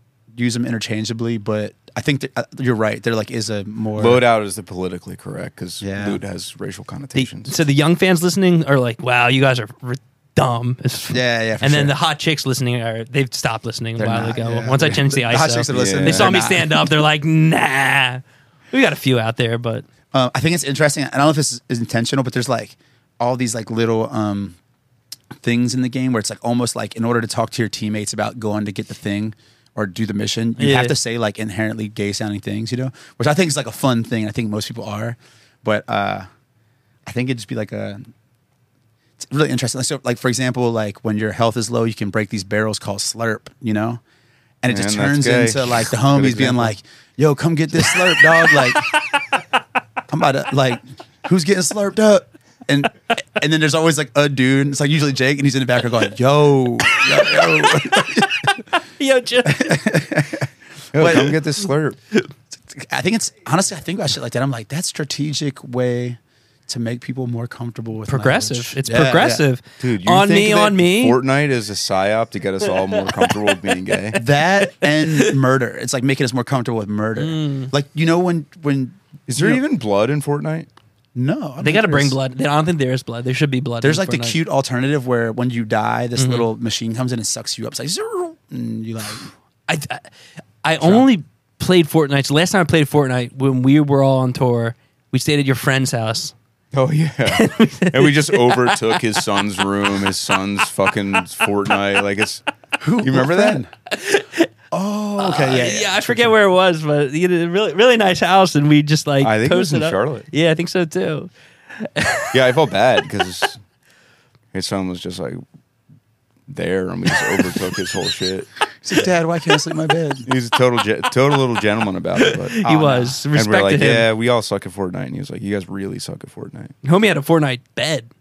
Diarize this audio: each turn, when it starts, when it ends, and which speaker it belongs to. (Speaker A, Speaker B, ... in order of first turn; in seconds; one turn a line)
Speaker A: 0.3-4.2
Speaker B: 4.0-7.5
Speaker A: 5.8-6.2
Speaker C: 7.1-19.8
Speaker A: 11.1-11.9
Speaker A: 14.0-16.9
Speaker B: 15.7-16.3
Speaker A: 20.1-24.6
Speaker A: 25.4-36.3
Speaker C: 30.6-30.9
Speaker A: 37.0-38.0
Speaker A: 39.2-44.0
Speaker A: 44.6-48.9
Speaker B: 44.7-46.8
Speaker C: 48.4-49.1
Speaker A: 50.1-58.5
Speaker C: 56.9-59.9
Speaker A: 59.5-61.4
Speaker B: 60.9-62.0
Speaker A: 62.7-69.4
Speaker C: 68.1-71.2
Speaker B: 69.8-74.2
Speaker A: 74.2-79.6
Speaker C: 74.7-75.3
Speaker C: 77.2-77.7
Speaker B: 79.3-80.7
Speaker A: 81.1-82.2
Speaker C: 81.6-84.4
Speaker A: 83.8-89.3
Speaker C: 86.2-86.5
Speaker C: 89.7-90.1
Speaker C: 90.6-96.3
Speaker A: 90.8-91.0
Speaker B: 96.7-102.4
Speaker C: 97.3-99.2
Speaker A: 102.8-103.7
Speaker B: 103.0-103.6
Speaker C: 103.9-104.5
Speaker A: 104.7-106.3
Speaker C: 105.2-112.4
Speaker B: 109.2-110.3
Speaker B: 112.3-113.6
Speaker B: 114.5-115.4
Speaker B: 116.5-118.5
Speaker A: 118.8-120.3
Speaker B: 120.2-122.6
Speaker C: 122.2-124.1
Speaker A: 122.6-123.2
Speaker B: 123.3-126.7
Speaker C: 126.8-128.1